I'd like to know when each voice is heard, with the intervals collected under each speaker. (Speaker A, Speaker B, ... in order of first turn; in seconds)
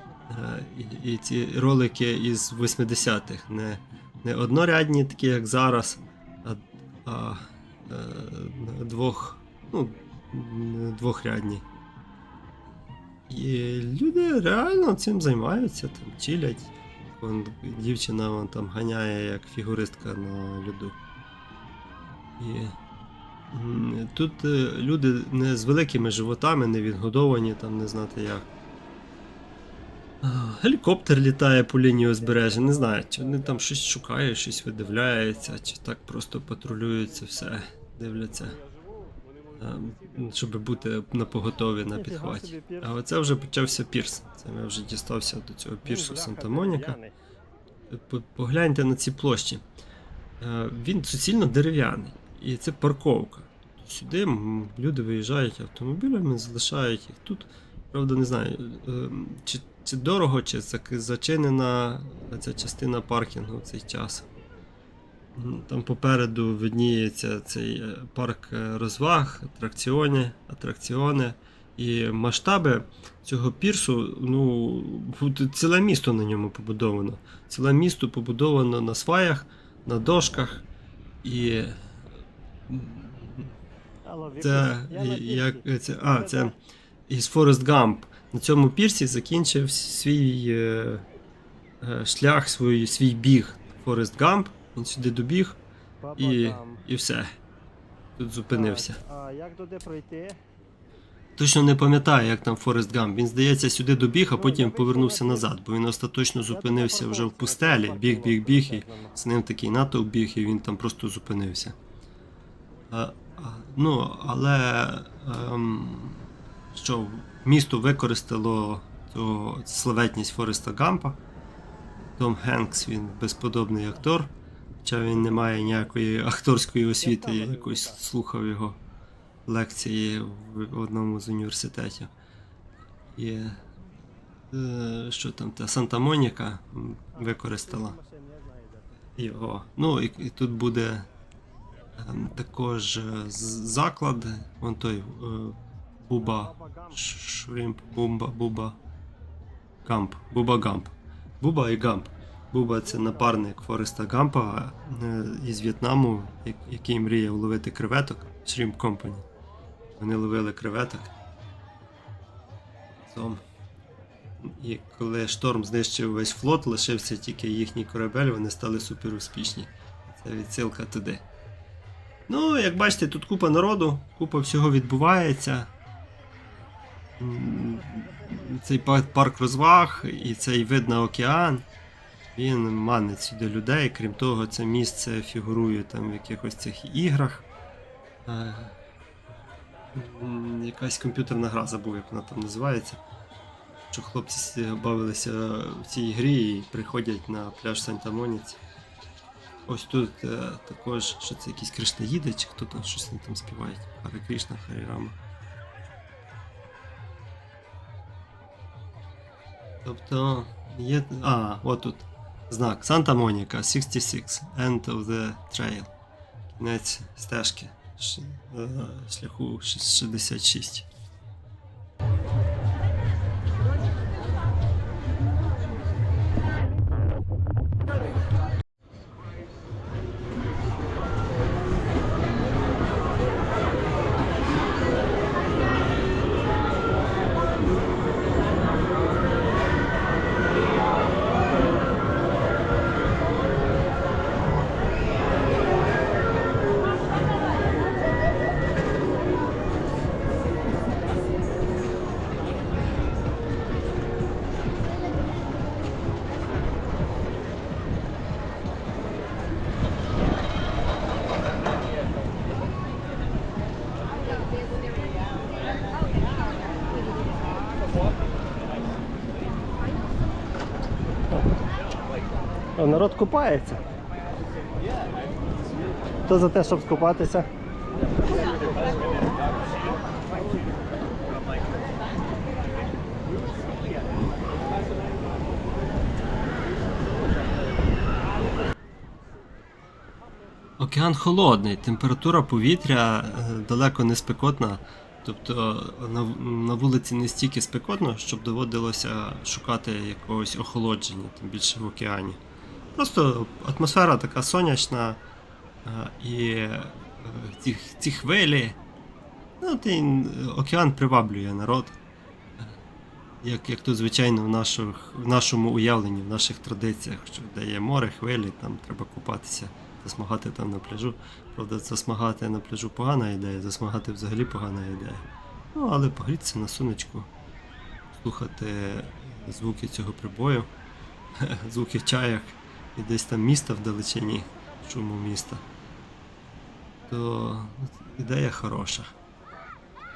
Speaker A: 0.3-11.6, 13.3-21.0, 22.4-22.7, 23.5-28.4, 30.2-38.6, 39.5-47.0, 47.9-49.6, 50.4-64.3, 65.3-80.6, 81.2-81.7, 82.7-83.5, 84.4-86.6, 87.1-91.0, 91.8-95.6, 96.2-97.3, 98.2-99.0, 101.4-111.8, 112.9-121.2, 122.2-124.3, 124.8-128.8, 129.5-132.1, 133.1-133.7, 134.5-138.0, 139.2-141.1, 142.0-148.8, 149.8-159.2, 160.0-161.1, 163.0-163.4, 164.4-171.2, 172.3-175.7, 177.2-181.6, 182.3-187.5, 188.2-188.7, 189.9-193.0, 193.9-198.6, 199.7-205.2, 209.8-215.9, 216.6-220.9, 272.8-273.8, 276.3-277.4, 290.8-302.4, 303.0-305.2, 305.8-308.8, 309.6-312.0, 313.4-327.3, 328.1-330.7, 331.4-335.6, 337.1-339.1
Speaker B: 46.2-47.1, 84.1-85.5, 96.0-96.7, 98.6-100.4, 104.6-105.0, 106.7-109.0, 276.5-277.1